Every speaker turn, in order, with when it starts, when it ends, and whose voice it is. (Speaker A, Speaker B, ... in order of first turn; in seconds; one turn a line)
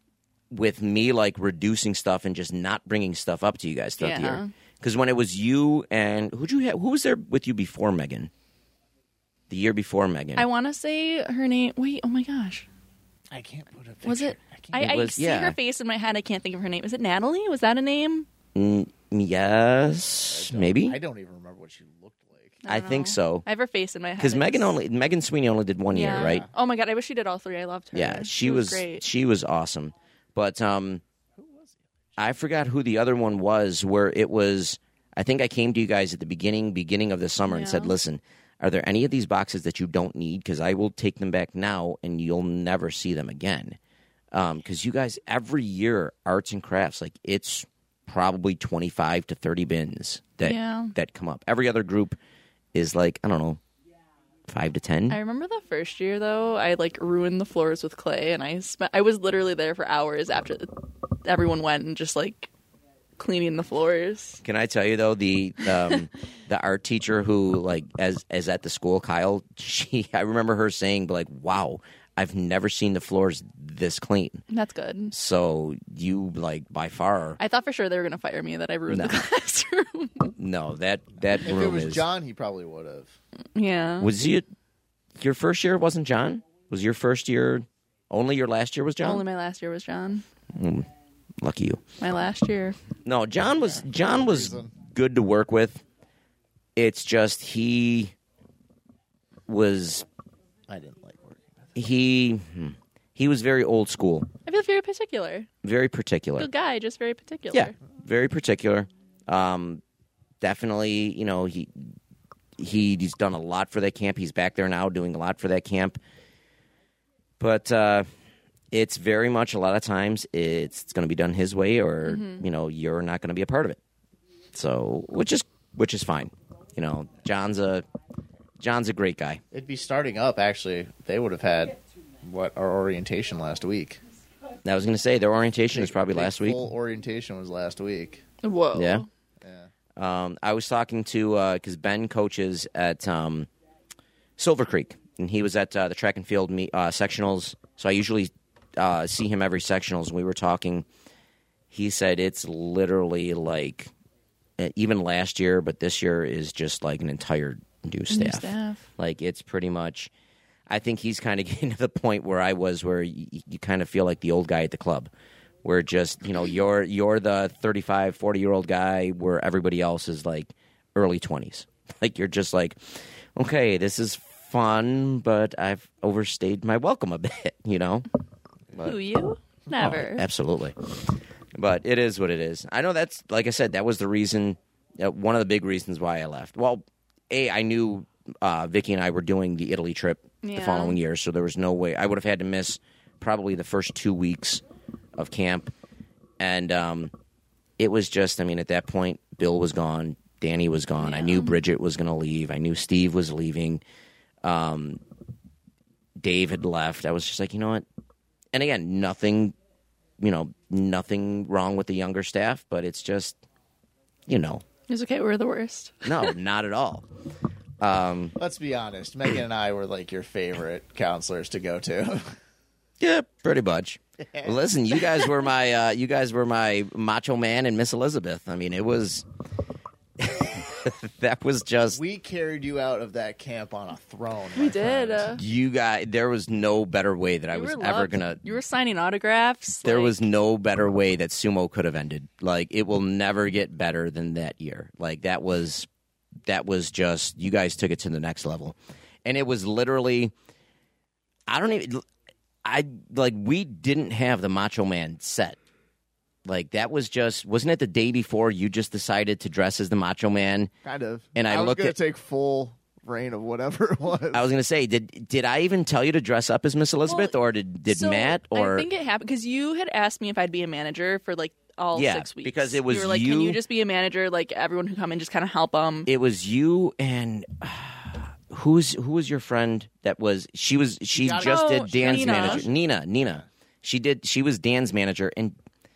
Speaker A: 0.5-8.3
Speaker B: 4.0-4.5
Speaker A: 9.5-10.5
Speaker B: 10.4-12.7
Speaker C: 13.3-15.0
Speaker B: 14.0-18.3
Speaker A: 14.8-15.6
Speaker A: 18.6-21.0
Speaker C: 20.3-22.6
Speaker B: 22.6-24.7
Speaker A: 22.7-23.5
Speaker A: 24.2-26.4
Speaker B: 25.9-29.0
Speaker C: 26.2-26.5
Speaker A: 27.9-31.0
Speaker C: 31.4-31.8
Speaker A: 32.2-43.8
Speaker B: 37.5-37.9
Speaker A: 44.3-52.2
Speaker B: 50.4-50.9
Speaker A: 52.7-53.6
Speaker A: 54.5-55.2
Speaker B: 55.1-62.5
Speaker B: 63.2-64.4
Speaker A: 64.4-74.4
Speaker B: 74.5-75.1
Speaker A: 75.1-77.4
Speaker B: 77.4-80.3
Speaker A: 78.9-79.2
Speaker A: 80.4-82.0
Speaker C: 81.4-83.1
Speaker B: 83.6-84.1
Speaker A: 84.0-84.5
Speaker A: 85.2-89.2
Speaker B: 89.0-90.2
Speaker A: 90.5-90.9
Speaker A: 91.4-91.8
Speaker B: 92.0-92.8
Speaker A: 93.0-95.8
Speaker C: 93.6-94.7
Speaker A: 96.8-98.1
Speaker A: 99.5-100.0
Speaker C: 100.7-101.8
Speaker A: 101.8-104.3
Speaker B: 104.5-105.5
Speaker A: 105.6-106.5
Speaker B: 106.4-107.7
Speaker A: 107.5-109.8
Speaker A: 110.4-111.9
Speaker A: 112.6-116.0
Speaker A: 117.4-118.1
Speaker A: 118.7-123.8
Speaker B: 122.0-122.4
Speaker A: 124.5-127.8
Speaker A: 128.6-129.4
Speaker C: 129.5-134.0
Speaker A: 134.7-136.6
Speaker C: 135.7-138.2
Speaker B: 138.4-139.1
Speaker A: 138.8-139.1
Speaker C: 139.4-139.7
Speaker A: 140.0-143.5
Speaker A: 144.4-150.8
Speaker A: 151.7-153.9
Speaker A: 154.6-160.1
Speaker B: 158.1-158.8
Speaker A: 160.7-165.1
Speaker A: 165.6-178.1
Speaker B: 178.8-180.2
Speaker A: 179.7-194.6
Speaker B: 190.4-191.0
Speaker A: 195.2-195.7
Speaker A: 196.4-197.1
Speaker A: 197.8-203.8
Speaker B: 201.0-201.6
Speaker A: 204.4-205.0
Speaker A: 206.2-207.8
Speaker A: 208.5-209.6
Speaker A: 210.2-213.4
Speaker A: 214.3-214.7
Speaker B: 214.9-216.3
Speaker A: 216.1-217.1
Speaker A: 217.8-218.3
Speaker C: 218.4-222.4
Speaker A: 223.0-229.2
Speaker C: 224.2-224.6
Speaker A: 230.2-232.0
Speaker C: 231.9-235.3
Speaker B: 234.6-235.4
Speaker A: 235.2-238.4
Speaker B: 237.5-240.2
Speaker A: 239.8-245.9
Speaker A: 246.5-250.3
Speaker A: 251.5-252.0
Speaker A: 252.6-255.6
Speaker A: 256.5-260.7
Speaker C: 260.8-264.4
Speaker A: 261.4-262.0
Speaker A: 264.3-268.9
Speaker B: 267.1-267.3
Speaker B: 267.9-276.1
Speaker A: 271.9-273.6
Speaker A: 276.1-285.6
Speaker C: 281.2-283.4
Speaker B: 281.4-282.6